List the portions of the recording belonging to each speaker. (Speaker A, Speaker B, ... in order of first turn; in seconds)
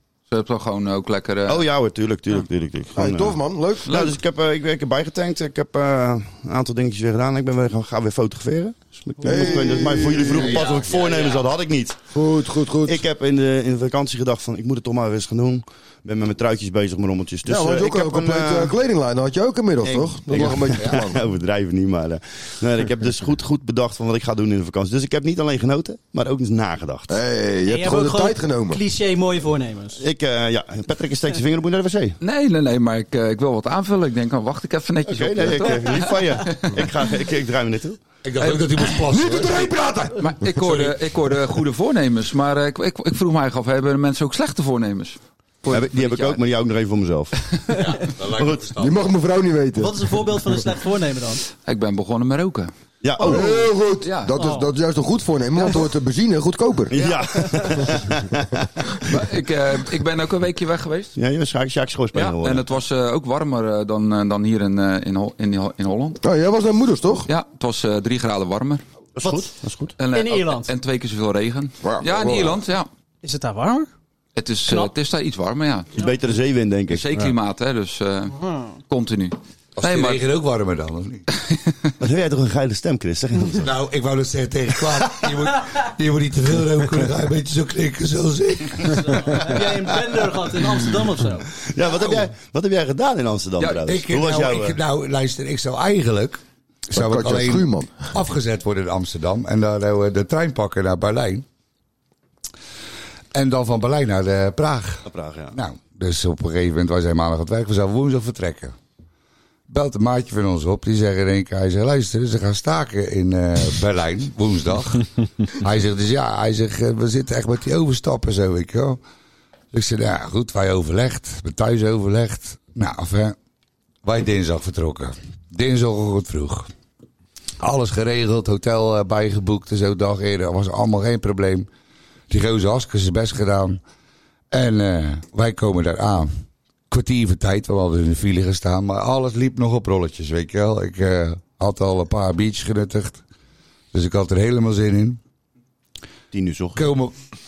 Speaker A: 0.3-1.7, 3.9-4.1, 10.4-11.4, 32.2-36.7, 40.2-46.4, 47.5-47.8, 51.7-53.4, 54.0-54.3, 57.1-57.5, 59.0-61.2, 62.1-66.2, 67.3-68.8, 70.0-72.9, 74.3-76.0, 76.9-78.3, 78.9-80.2
Speaker B: 1.5-12.0, 12.8-18.7, 19.8-27.1, 30.0-32.2, 35.1-38.0, 45.7-47.3, 48.3-48.6, 53.0-53.7, 56.9-58.7, 61.2-62.6, 69.2-69.9, 76.0-77.1, 82.0-83.7, 91.7-94.8, 105.1-105.6, 146.3-146.8
Speaker C: 3.0-4.0, 9.2-10.6, 12.1-13.0, 17.5-21.2, 27.1-28.8, 38.4-40.1, 48.8-50.1, 53.2-57.0, 66.2-67.3, 71.8-72.5, 96.9-98.1
Speaker D: 27.7-30.0, 49.8-51.4, 54.4-54.7, 69.2-69.5, 70.1-70.7, 73.2-73.9, 78.3-78.7, 88.9-91.5
Speaker E: 38.2-41.0, 47.7-49.1, 79.8-81.2, 83.6-89.8, 93.9-101.5, 103.3-108.8, 109.7-119.0, 119.7-123.4, 124.0-126.7, 127.6-131.7, 132.3-133.8, 134.5-136.3, 136.9-143.2, 143.9-145.2, 146.8-147.1